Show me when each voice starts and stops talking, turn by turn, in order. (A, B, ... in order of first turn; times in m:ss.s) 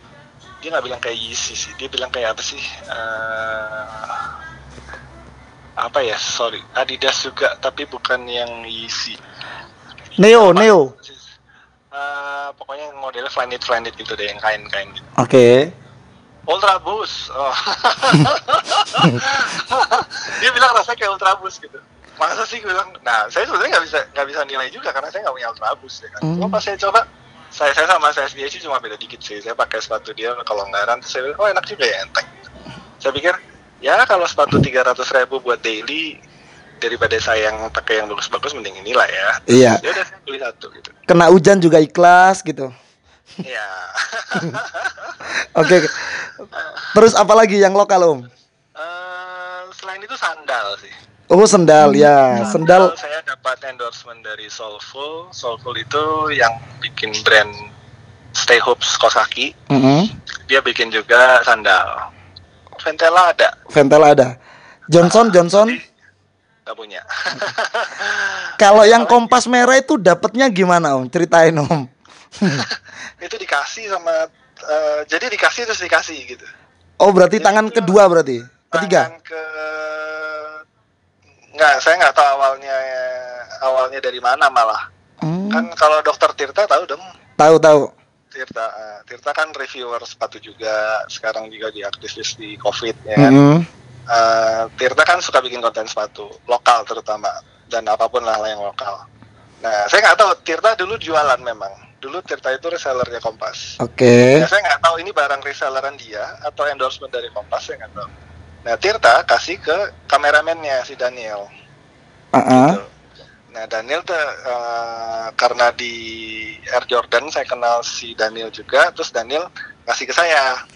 0:00.6-0:04.2 A
0:05.8-0:09.2 A
0:10.2-0:10.9 B
0:10.3-0:11.3 A
0:11.9-0:15.1 A
0:15.2-0:15.7 B
0:16.5-0:27.0 A
0:26.2-0:26.6 B
0:27.6-0:32.3 A
0:33.0-0:36.2 A
0:36.8-0:40.9 A
0:39.5-0:39.8 B
0:41.1-0:42.7 B
0:43.4-0:45.9 A
0:45.3-0:48.3 B
0:46.6-0:46.8 A
0:48.8-0:50.9 A
0:51.3-0:52.9 B
0:52.4-0:57.5 A
0:58.4-0:59.5 A
0:59.7-1:00.1 B
1:00.5-1:02.0 A
1:02.8-1:03.5 A
1:03.7-1:04.4 B
1:04.9-1:05.8 B
1:05.0-1:05.8 A
1:06.7-1:09.4 A
1:08.6-1:12.7 B
1:12.5-1:16.5 A
1:17.0-1:19.1 B
1:17.4-1:18.0 A
1:18.7-1:20.6 A
1:21.6-1:24.8 A
1:25.2-1:25.7 B
1:25.5-1:27.0 A
1:27.4-1:27.9 B
1:28.3-1:33.4 A
1:33.2-1:33.7 B
1:34.1-1:39.0 A
1:39.6-1:43.7 A
1:43.8-1:44.5 B
1:44.4-1:48.1 A
1:48.6-1:51.5 A
1:52.4-1:52.8 B
1:52.5-1:52.9 A
1:53.5-2:00.5 A